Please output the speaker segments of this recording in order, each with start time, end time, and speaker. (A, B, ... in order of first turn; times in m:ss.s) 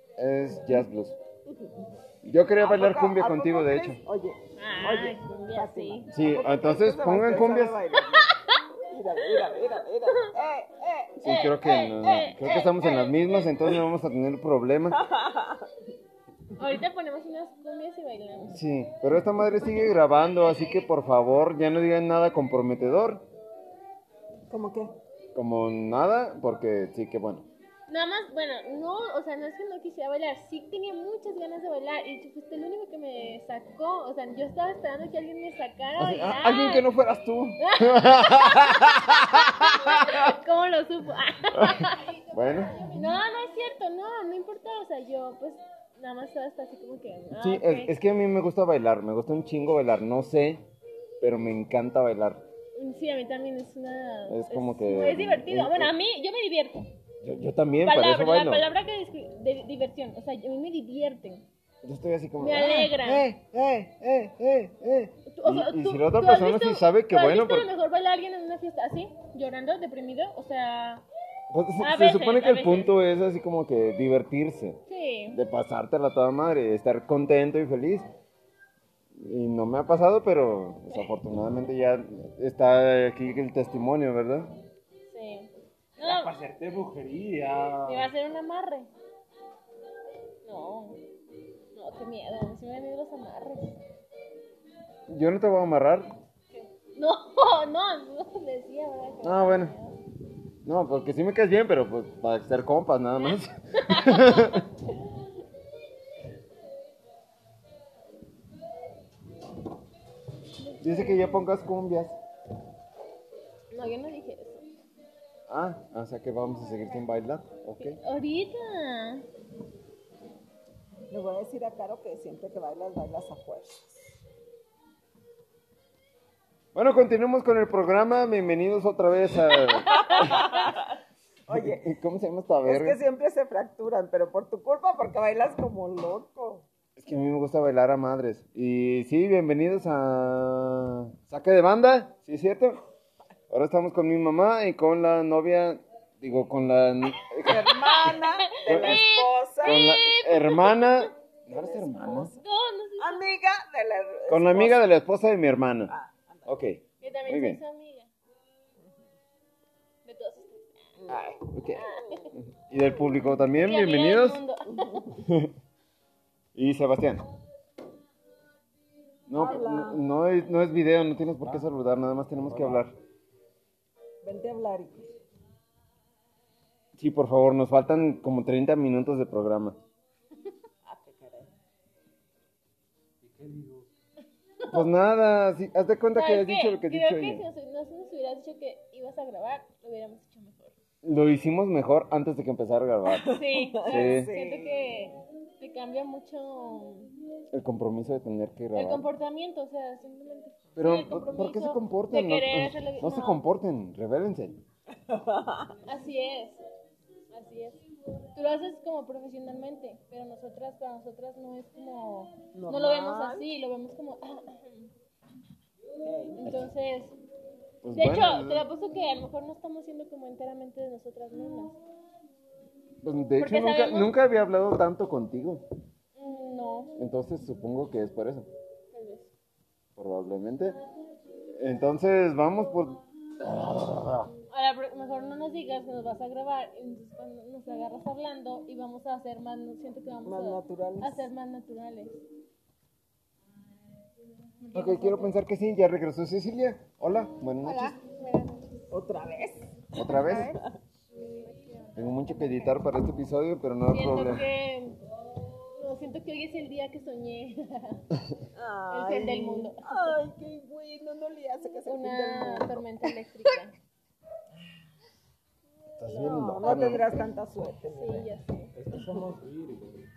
0:00.2-0:01.2 A
0:02.2-0:04.0 A
0:02.6-0:11.2 B
0:04.6-0:06.1 C
0:06.1-0:07.8 A
0:08.1-0:08.6 C
0:11.2-0:13.8 C
0:11.2-0:15.0 A
0:14.9-0:15.7 B
0:16.6-0:18.6 C
0:18.5-0:23.2 A
0:24.5-0:24.9 B
0:25.3-0:27.5 A
0:27.9-0:36.9 C
0:36.0-0:40.3 A
0:37.6-0:42.2 C
0:41.5-0:42.9 A
0:42.8-0:47.9 C
0:47.4-0:50.6 A
0:51.2-0:52.4 A
0:52.7-0:56.9 C
0:54.3-0:55.9 A
0:57.2-0:58.6 A
0:57.8-1:01.4 C
1:01.8-1:07.7 A
1:02.4-1:03.2 C
1:05.3-1:11.0 C
1:11.5-1:14.8 A
1:11.8-1:12.9 C
1:14.9-1:15.4 C
1:15.3-1:18.0 A
1:19.1-1:24.5 A
1:25.1-1:26.3 C
1:26.0-1:28.1 D
1:27.8-1:28.9 C
1:30.4-1:31.0 C
1:31.7-1:33.8 C
1:35.1-1:36.1 A
1:36.5-1:40.0 C
1:39.2-1:39.7 A
1:40.6-1:44.6 A
1:43.2-1:45.0 C
1:50.6-1:51.5 C
1:50.8-1:52.1 A
1:53.7-1:54.6 C
1:55.5-1:58.0 A
1:57.8-1:59.3 C
2:01.1-2:04.1 B
2:06.7-2:10.5 A
2:10.0-2:10.9 B
2:11.5-2:11.9 B
2:11.5-2:13.0 A
2:12.6-2:16.7 B
2:17.0-2:22.8 A
2:23.5-2:28.1 A
2:27.4-2:29.8 B
2:27.9-2:31.1 C
2:28.6-2:29.0 A
2:29.6-2:32.3 A
2:31.5-2:32.4 B
2:32.4-2:33.2 C
2:33.0-2:34.9 B
2:34.3-2:35.9 A
2:35.9-2:36.5 B
2:36.4-2:37.6 A
2:37.0-2:38.1 C
2:40.0-2:40.9 C
2:41.0-2:41.5 B
2:41.1-2:44.4 A
2:41.7-2:42.3 C
2:43.4-2:45.1 C
2:45.2-2:45.5 A
2:46.5-2:47.2 A
2:49.3-2:52.9 A
2:49.3-2:50.0 B
2:52.4-2:52.8 D
2:54.2-2:55.2 B
2:57.0-2:59.8 A
3:00.8-3:01.5 B
3:03.2-3:03.9 D
3:04.7-3:07.4 A
3:06.1-3:10.7 C
3:11.0-3:14.3 A
3:13.1-3:15.0 B
3:13.2-3:17.1 C
3:17.5-3:19.1 A
3:18.7-3:23.4 C
3:20.8-3:24.6 A
3:25.0-3:25.8 B
3:25.9-3:26.6 C
3:27.3-3:27.8 C
3:28.3-3:34.9 C
3:32.5-3:33.5 B
3:36.0-3:36.6 B
3:36.4-3:37.2 C
3:37.8-3:38.6 A
3:37.9-3:41.8 C
3:43.0-3:45.6 A
3:43.4-3:44.1 C
3:46.2-3:47.0 C
3:47.0-3:48.5 A
3:48.9-3:49.3 C
3:50.0-3:50.8 A
3:51.6-3:54.3 A
3:54.5-4:02.2 C
4:00.2-4:01.3 B
4:04.6-4:05.3 E
4:04.7-4:08.0 A
4:07.6-4:08.7 E
4:08.9-4:10.6 B
4:09.9-4:10.5 A
4:10.0-4:10.6 E
4:11.3-4:12.8 E
4:11.9-4:14.5 A
4:13.9-4:15.0 C
4:15.7-4:18.0 C
4:18.5-4:22.8 B
4:18.9-4:20.2 C
4:21.8-4:23.7 C
4:26.0-4:27.1 A
4:26.1-4:28.6 B
4:27.9-4:28.7 C
4:28.7-4:30.0 D